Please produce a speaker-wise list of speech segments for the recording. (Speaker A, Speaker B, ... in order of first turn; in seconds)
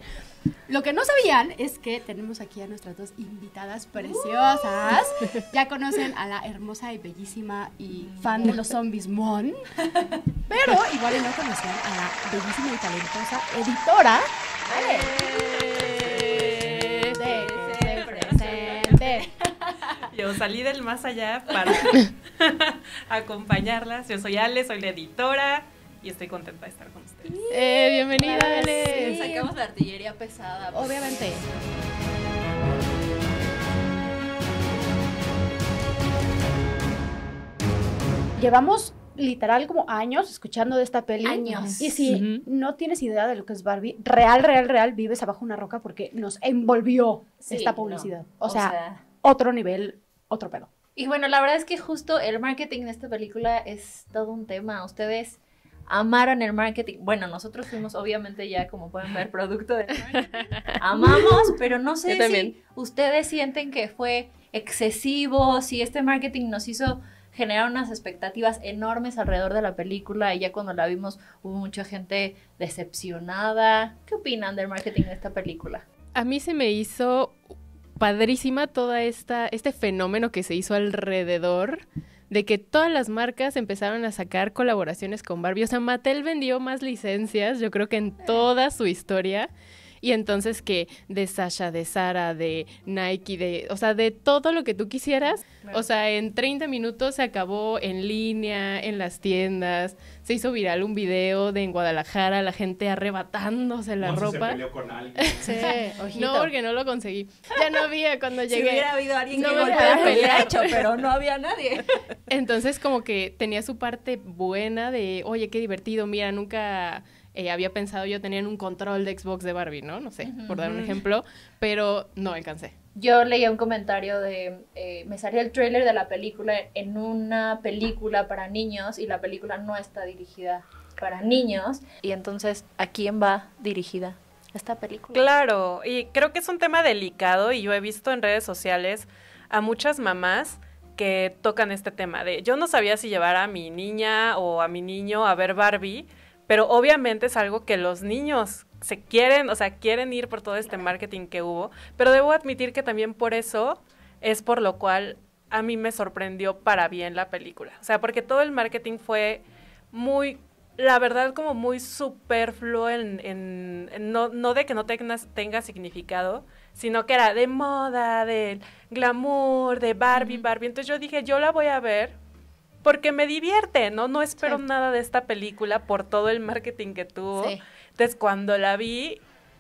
Speaker A: 0.7-9.6, 10.5-15.3, 17.1-19.3, 28.2-29.2, 30.7-31.4, 38.4-50.7, 105.4-106.5, 109.4-110.5
Speaker B: 4.0-5.1, 8.0-8.7, 14.7-20.0, 21.5-21.9, 27.3-31.7, 41.2-42.2, 47.4-49.0, 51.0-75.8, 108.5-111.9, 120.2-120.7, 122.9-135.3, 170.1-170.4, 177.3-177.6
Speaker C: 15.7-17.1, 104.0-105.7
Speaker D: 20.1-27.4, 41.6-42.4, 120.7-121.0, 135.1-172.2, 172.8-179.2
Speaker E: 27.5-29.3, 60.0-61.5, 62.1-62.5, 76.2-77.4, 78.0-89.5, 90.0-104.7, 105.2-110.8, 112.3-122.7